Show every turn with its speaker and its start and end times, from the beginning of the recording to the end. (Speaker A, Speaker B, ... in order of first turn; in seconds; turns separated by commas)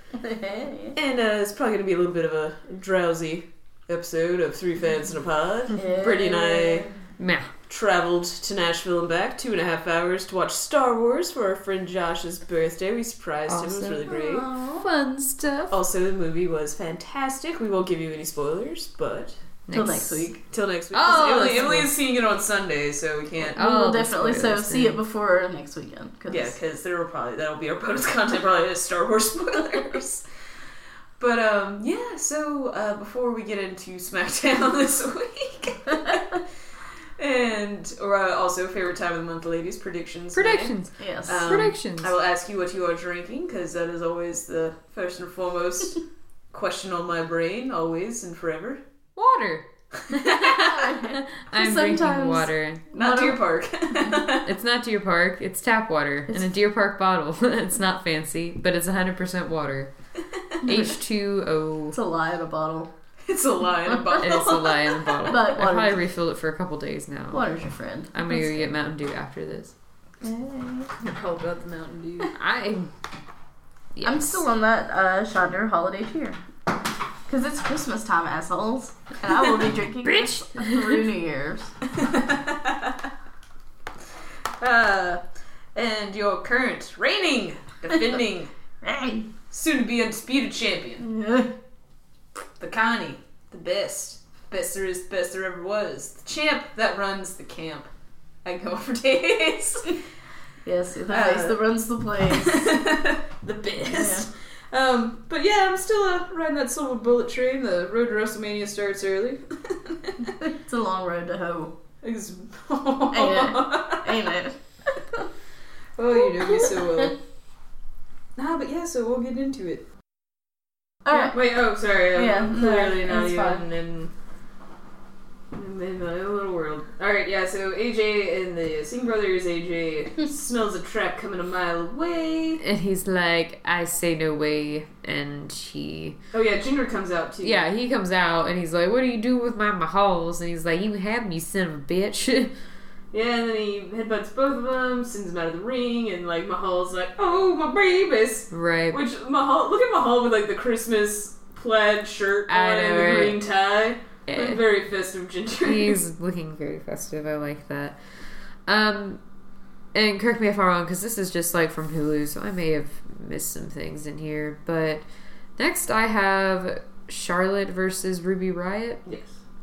Speaker A: 0.1-0.9, Speaker B: 0.9-6.9, Speaker A: 5.7-6.9, Speaker C: 7.2-7.5, Speaker B: 7.7-14.5, Speaker C: 13.5-14.1, Speaker A: 14.1-14.9, Speaker C: 14.8-15.8, Speaker B: 15.7-19.4, Speaker C: 19.7-20.3, Speaker A: 19.7-20.4, Speaker B: 20.5-23.6, Speaker C: 20.9-21.9, Speaker A: 21.1-21.7, Speaker C: 23.5-25.0, Speaker A: 23.6-26.6, Speaker B: 26.3-30.2, Speaker B: 31.2-36.4, Speaker B: 37.2-46.0, Speaker C: 40.3-42.1, Speaker A: 41.0-41.6, Speaker B: 46.5-48.8, Speaker C: 49.2-52.9, Speaker B: 50.2-50.8, Speaker A: 50.3-54.2, Speaker B: 52.9-54.5, Speaker C: 54.5-59.9, Speaker A: 60.6-61.0, Speaker C: 60.6-62.0, Speaker A: 61.9-62.9, Speaker B: 63.3-65.4, Speaker A: 63.9-64.2, Speaker C: 64.2-67.4, Speaker A: 65.3-66.0, Speaker A: 67.3-68.7, Speaker C: 68.1-69.7, Speaker A: 70.2-70.9, Speaker B: 71.0-72.3, Speaker C: 72.3-72.9, Speaker C: 74.0-74.4, Speaker A: 74.0-76.4, Speaker A: 77.3-81.7, Speaker C: 80.0-81.0, Speaker B: 81.9-83.0, Speaker B: 84.6-85.2, Speaker B: 85.8-88.5, Speaker A: 88.9-89.2, Speaker B: 89.5-91.1, Speaker A: 91.0-91.5, Speaker B: 92.6-97.9, Speaker B: 98.5-100.0, Speaker A: 100.7-102.7, Speaker B: 101.1-101.6, Speaker B: 102.3-110.1, Speaker A: 103.9-104.3, Speaker A: 110.3-111.8, Speaker B: 112.0-114.2, Speaker A: 113.1-114.6, Speaker B: 116.0-117.2, Speaker B: 118.4-119.8, Speaker A: 121.1-121.4, Speaker B: 121.2-124.1, Speaker A: 122.1-123.6, Speaker B: 125.5-132.6, Speaker C: 132.6-136.2, Speaker B: 136.3-137.6, Speaker C: 137.4-142.5, Speaker B: 143.1-156.0, Speaker C: 148.5-149.0, Speaker C: 152.5-153.4, Speaker C: 154.3-154.6, Speaker C: 155.6-158.0, Speaker C: 158.7-159.2, Speaker C: 159.9-165.0, Speaker C: 165.6-169.0, Speaker B: 169.1-169.3